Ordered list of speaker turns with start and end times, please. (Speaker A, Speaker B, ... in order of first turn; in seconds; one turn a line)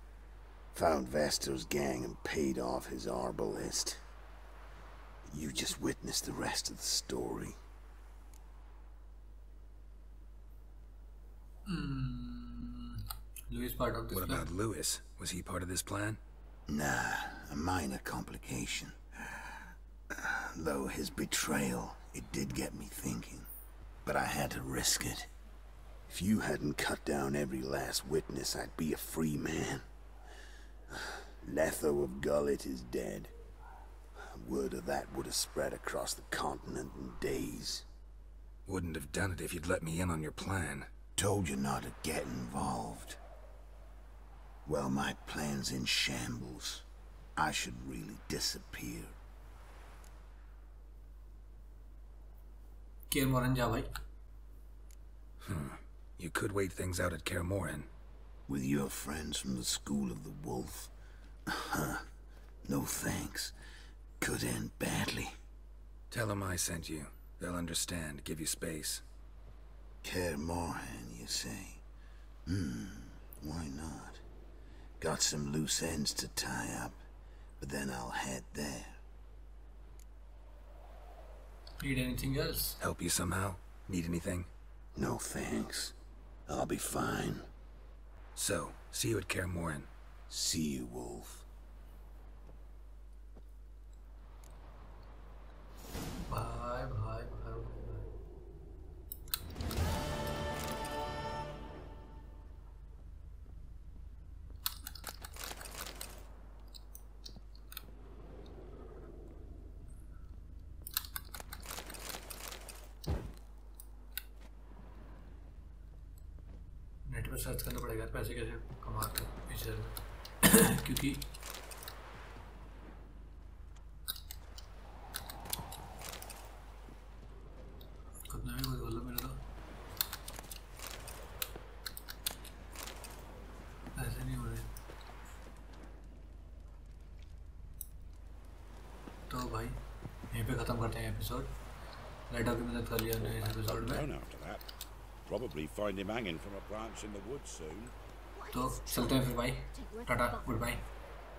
Speaker A: 0.7-4.0
Speaker A: 5.3-7.6
Speaker B: 11.7-14.5
Speaker C: 14.1-16.2
Speaker A: 16.7-19.6
Speaker A: 20.1-23.5
Speaker A: 24.1-25.3
Speaker A: 26.1-29.9
Speaker A: 30.9-33.3
Speaker A: 34.2-37.9
Speaker C: 38.7-40.9
Speaker A: 41.2-43.2
Speaker A: 44.7-49.2
Speaker B: 53.1-53.9
Speaker C: 55.4-57.9
Speaker A: 58.5-60.9
Speaker A: 61.5-62.1
Speaker A: 62.6-63.5
Speaker A: 64.2-65.3
Speaker C: 66.1-69.0
Speaker A: 70.0-71.8
Speaker A: 72.5-74.2
Speaker A: 75.0-77.0
Speaker A: 77.6-79.0
Speaker B: 81.8-82.8
Speaker C: 82.8-84.5
Speaker A: 85.0-86.0
Speaker A: 86.5-87.5
Speaker C: 88.4-89.9
Speaker A: 90.3-91.5
Speaker B: 96.2-98.1
Speaker B: 117.1-121.3
Speaker B: 128.3-129.4
Speaker B: 133.9-134.7
Speaker B: 139.3-139.8
Speaker B: 140.3-141.5
Speaker B: 142.3-144.1
Speaker D: 143.2-144.7
Speaker D: 145.3-147.9
Speaker B: 148.5-150.9